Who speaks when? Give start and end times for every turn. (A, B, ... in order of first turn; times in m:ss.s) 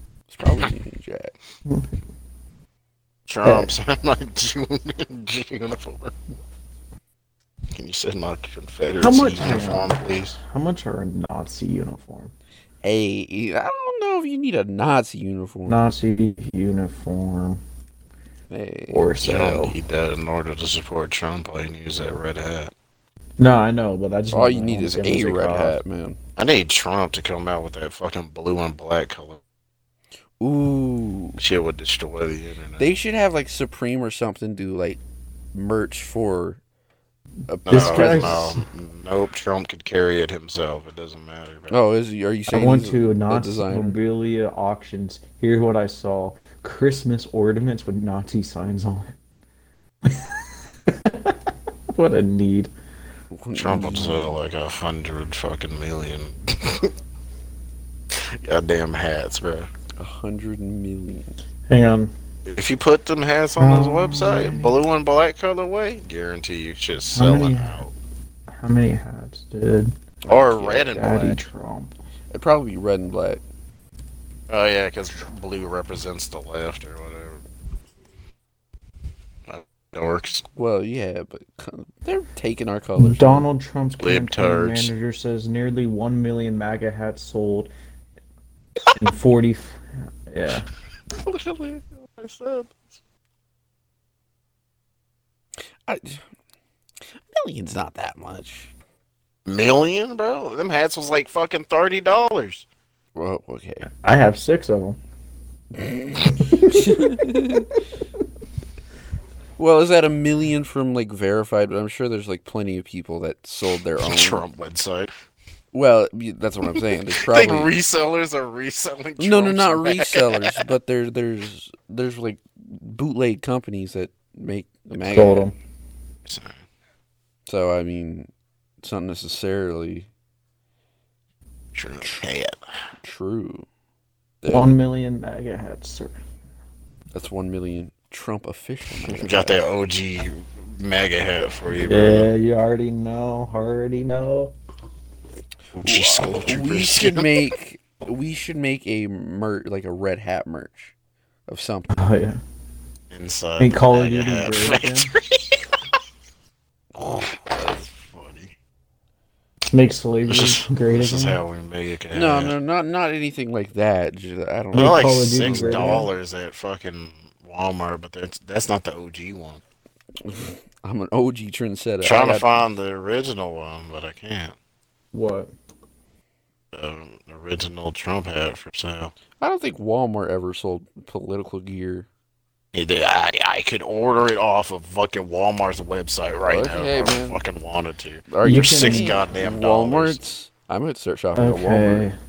0:00.3-0:01.3 A
0:03.3-0:06.1 B
0:03.4-0:03.7 C
0:07.7-0:10.4 B
0:08.9-0:12.3 C
0:12.8-0:15.8 A
0:15.7-0:17.6 C
0:18.5-0:19.1 A
0:18.9-0:19.8 C
0:19.2-0:22.7 B
0:23.4-0:25.8 C
0:24.3-0:26.2 A
0:26.4-0:29.4 B
0:30.4-0:31.4 A
0:31.4-0:33.0 B
0:32.8-0:35.0 A
0:35.5-0:36.6 A
0:37.5-0:38.5 A
0:37.7-0:41.8 B
0:37.7-0:38.6 C
0:41.7-0:44.0 A
0:42.5-0:49.1 C
0:50.1-0:50.4 C
0:51.0-0:51.4 C
0:52.0-0:52.7 C
0:53.3-0:54.3 A
0:53.6-0:56.9 B
0:58.1-0:59.7 B
1:00.0-1:01.4 A
1:01.7-1:02.1 C
1:02.5-1:07.9 B
1:03.6-1:04.8 C
1:07.2-1:07.8 C
1:08.5-1:10.0 C
1:10.3-1:11.5 B
1:10.5-1:10.8 A
1:10.8-1:11.9 C
1:12.3-1:13.4 A
1:14.5-1:17.4 B
1:19.5-1:20.4 B
1:20.5-1:23.5 A
1:23.0-1:27.7 C
1:24.0-1:24.9 B
1:29.0-1:30.7 C
1:31.2-1:32.8 B
1:35.9-1:36.2 A
1:37.2-1:38.7 A
1:39.5-1:42.7 B
1:43.2-1:43.9 A
1:44.0-1:45.0 C
1:45.8-1:47.7 A
1:49.6-1:54.4 A
1:54.0-1:55.1 B
1:55.7-1:57.7 A
1:57.2-2:00.6 B
1:59.2-2:05.5 A
2:05.0-2:05.6 C
2:06.3-2:06.6 B
2:07.5-2:08.3 A
2:08.8-2:10.1 A
2:11.8-2:12.6 B
2:13.0-2:13.7 A
2:14.4-2:14.7 A
2:14.5-2:16.2 C
2:17.1-2:19.6 A
2:19.0-2:22.3 B
2:21.7-2:24.5 C
2:25.8-2:27.5 B
2:25.8-2:30.9 A
2:31.5-2:32.0 A
2:31.9-2:32.4 C
2:33.1-2:35.7 B
2:33.6-2:35.1 C
2:37.0-2:38.5 B
2:39.7-2:41.4 C
2:40.3-2:42.5 B
2:42.1-2:46.0 A
2:44.7-2:46.1 C
2:44.7-2:49.6 B
2:50.2-2:52.4 A
2:52.0-2:54.6 B
2:55.1-2:55.5 C
2:56.7-2:59.1 B
2:59.4-3:02.1 A
3:02.7-3:10.2 B
3:06.5-3:07.4 A
3:08.3-3:12.1 A
3:08.4-3:09.2 C
3:11.4-3:12.2 C